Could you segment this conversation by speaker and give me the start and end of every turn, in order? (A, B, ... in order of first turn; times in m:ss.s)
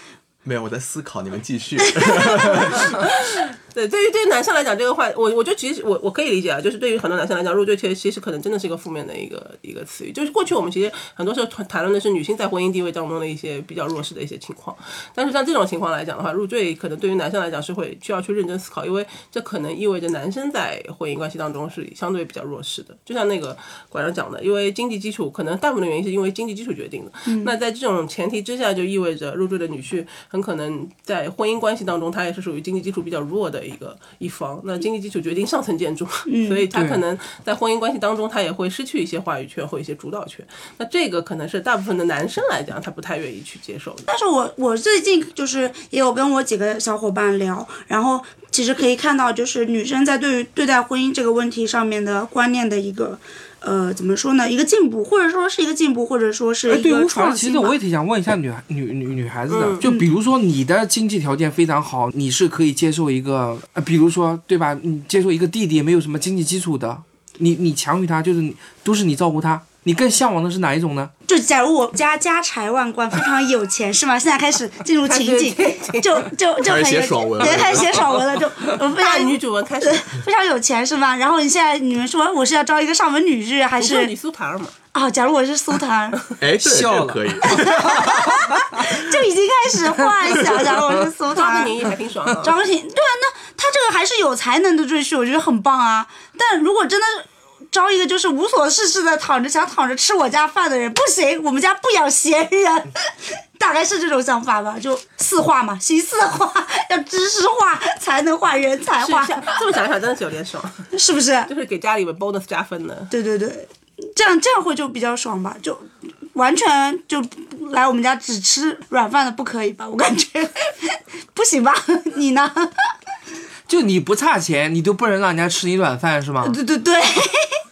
0:00.4-0:03.2 A
0:01.8-0:02.7 B
0:02.8-0:44.0 C
0:27.3-0:27.5 B
0:36.3-0:36.7 B
0:36.7-0:37.0 D
0:44.1-0:57.7 B
0:56.7-1:11.1 D
0:59.5-0:59.9 C
0:59.8-1:00.1 B
1:11.3-1:24.1 B
1:15.0-1:16.3 C
1:16.6-1:18.1 A
1:18.8-1:20.1 C
1:23.8-1:24.7 C
1:24.9-1:26.3 B
1:26.4-1:28.3 A
1:26.6-1:28.9 D
1:27.4-1:49.5 B
1:31.3-1:32.6 C
1:49.0-1:50.9 C
1:50.9-1:51.5 B
1:51.5-1:53.1 C
1:53.1-2:02.9 B
2:03.7-2:06.6 D
2:06.4-2:07.6 B